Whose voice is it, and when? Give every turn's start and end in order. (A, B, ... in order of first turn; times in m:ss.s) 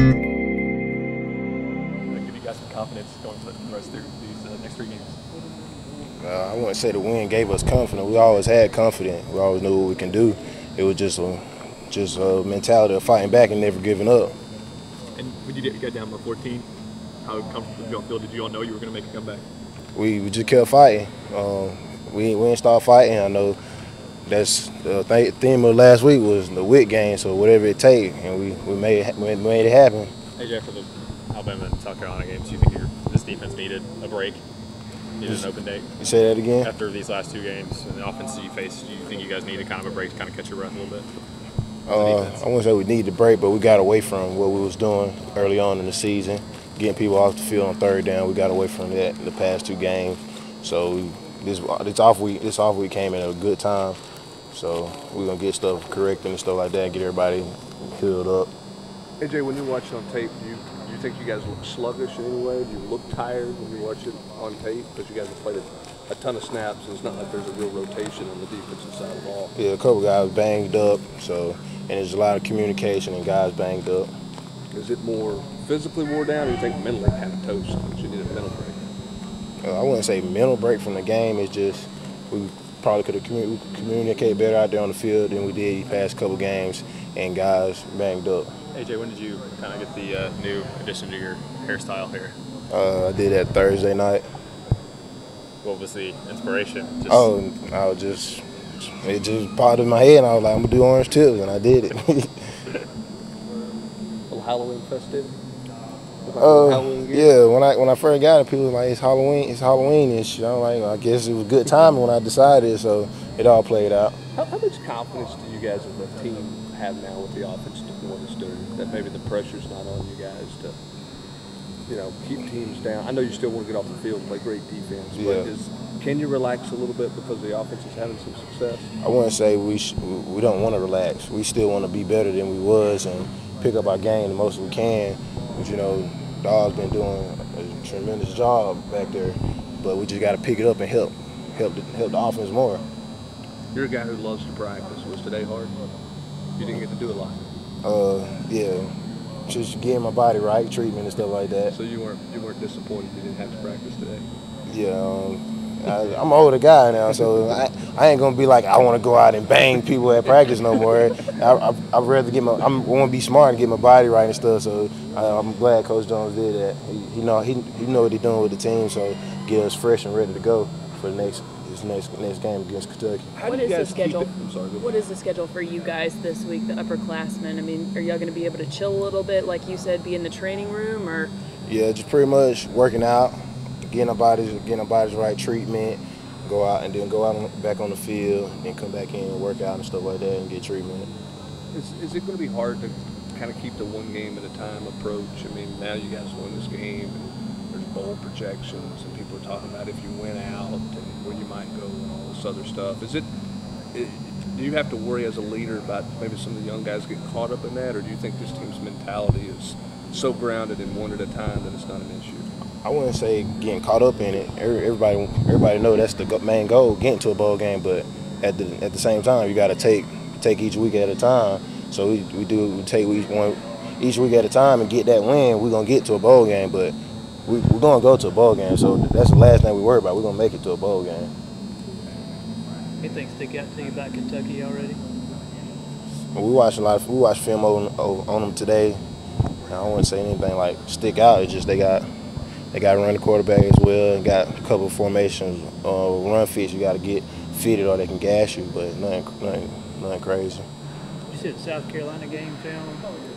0:02.1-0:05.2 A
0:06.2-0:14.4 B
0:15.2-0:16.7 A
0:17.2-0:19.4 A
0:20.0-0:23.6 B
0:24.3-0:30.1 B
0:30.4-0:34.4 C
0:35.2-0:35.9 C
0:35.2-0:35.5 B
0:36.0-0:36.7 B
0:36.6-0:41.1 C
0:41.9-0:54.0 B
0:41.9-0:42.4 C
0:54.5-0:58.5 B
0:59.2-1:09.5 D
1:09.6-1:14.1 B
1:14.7-1:18.8 D
1:19.6-1:28.5 B
1:28.7-1:32.4 C
1:32.7-1:34.2 B
1:35.6-1:37.3 C
1:37.1-1:42.3 B
1:44.3-1:45.4 D
1:46.2-1:47.3 D
1:46.4-1:54.2 B
1:54.4-2:00.8 D
2:01.9-2:08.9 D
2:05.1-2:05.5 B
2:09.0-2:22.8 B
2:23.7-2:25.8 D
2:26.6-2:27.5 D
2:27.8-2:28.9 B
2:29.5-2:31.7 B
2:31.7-2:34.3 D
2:34.7-2:53.3 B
2:53.4-2:55.0 D
2:53.4-3:01.3 E
3:01.7-3:11.1 B
3:11.7-3:23.3 D
3:23.9-3:32.5 D
3:32.8-3:46.9 B
3:47.5-3:51.3 B
3:53.0-3:55.0 F
3:56.4-3:59.0 B
3:59.7-4:02.1 B
4:02.7-4:10.6 B
4:11.3-4:13.1 F